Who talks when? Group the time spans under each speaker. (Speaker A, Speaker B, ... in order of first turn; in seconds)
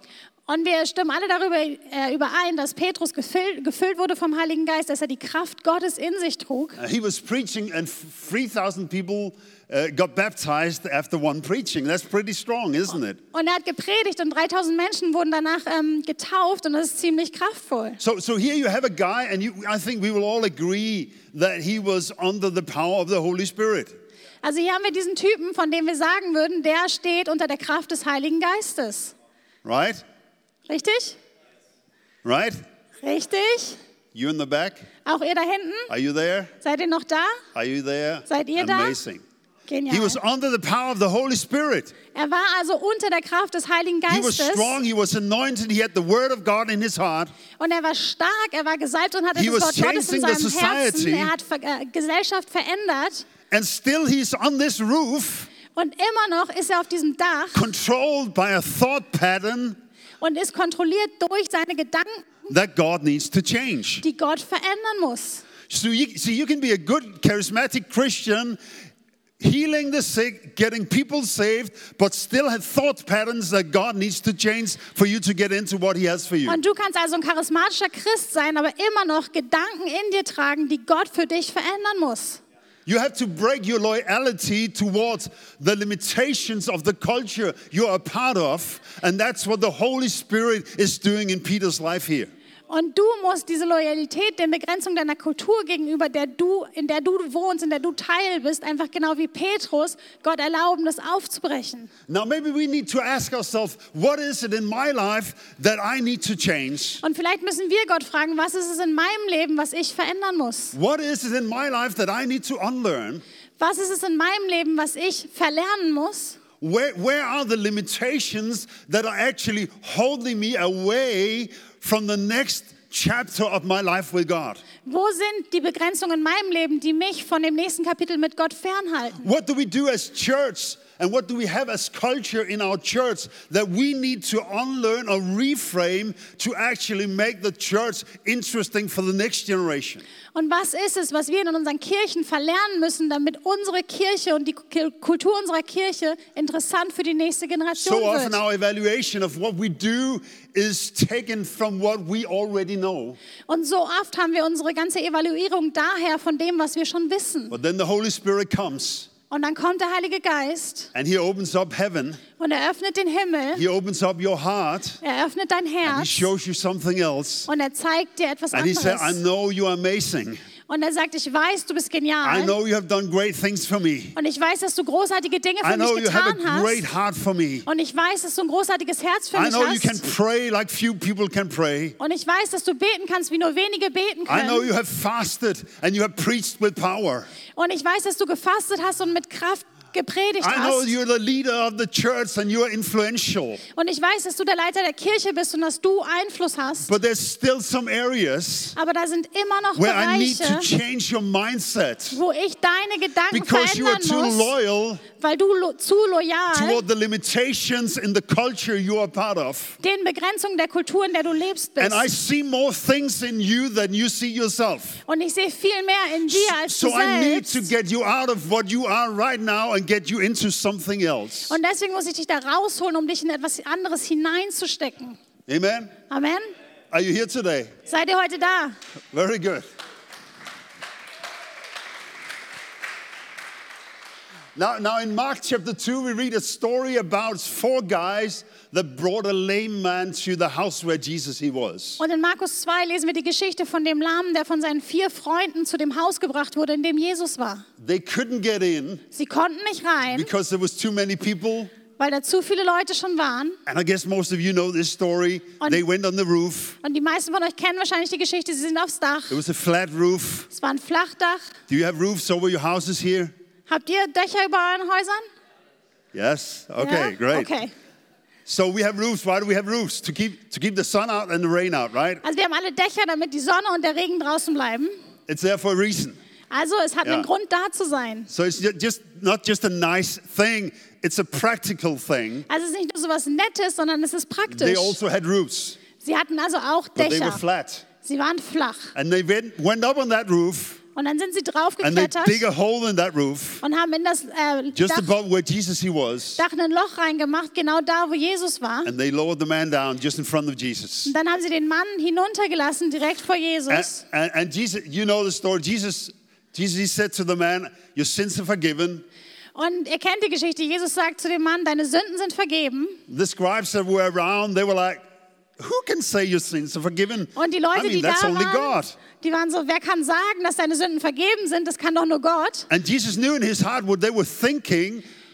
Speaker A: 0.5-6.8, 13.3-18.0, 24.4-29.1, 30.7-31.2, 33.0-33.8, 35.0-35.9, 36.6-37.4, 38.3-39.0, 39.6-40.2, 42.1-44.7, 47.6-53.2, 55.7-57.6, 60.2-62.3, 64.0-65.5, 76.5-82.4, 92.7-101.9, 107.0-110.7, 113.6-116.4, 124.8-129.2, 140.3-148.4, 153.5-157.6, 159.3-160.9, 162.4-163.6, 165.0-166.3, 167.5-169.2, 170.7-172.5, 174.2-176.8, 177.7-180.0, 182.0-184.7, 187.5-190.9, 193.7-196.9, 198.7-200.7, 202.1-204.5, 205.2-206.8, 209.8-212.1, 215.1-217.7, 221.5-225.2, 226.1-226.5, 227.9-228.8, 242.0-247.6, 249.1-250.3, 252.0-253.6, 256.8-259.4, 260.5-261.5, 263.7-265.2, 266.8-267.7, 272.2-274.9, 276.5-278.3, 282.5-285.0, 286.0-287.4, 288.0-288.9, 290.9-292.4, 293.6-295.1, 296.4-298.9, 301.0-304.0, 309.5-313.0, 317.3-322.7
Speaker B: 6.8-13.2, 18.0-24.0, 29.6-30.0, 32.2-32.6, 34.1-34.9, 35.9-36.5, 37.5-39.2, 39.9-42.0, 44.1-47.3, 49.3-51.3, 53.5-55.5, 57.5-59.8, 62.5-64.0, 65.7-68.6, 69.4-76.6, 82.8-92.3, 102.1-107.0, 110.7-113.2, 116.6-124.6, 129.2-140.0, 147.7-153.2, 157.5-159.1, 160.9-162.2, 163.5-165.0, 165.8-167.5, 168.5-170.4, 172.2-174.2, 175.6-177.7, 179.3-182.0, 184.3-187.3, 190.4-193.6, 196.9-198.8, 199.8-202.2, 203.3-205.0, 206.5-209.8, 211.8-215.0, 216.3-221.6, 225.5-225.9, 226.9-227.7, 229.1-229.7, 234.5-242.0, 247.8-249.0, 250.1-251.7, 253.7-256.8, 259.3-260.5, 261.7-263.3, 266.1-267.5, 268.4-272.2, 275.3-276.2, 278.3-282.5, 284.5-285.8, 286.9-287.8, 288.9-290.8, 291.8-293.6, 294.7-296.4, 298.8-301.1, 303.7-309.0, 313.1-315.0, 315.6-319.0, 322.7-325.1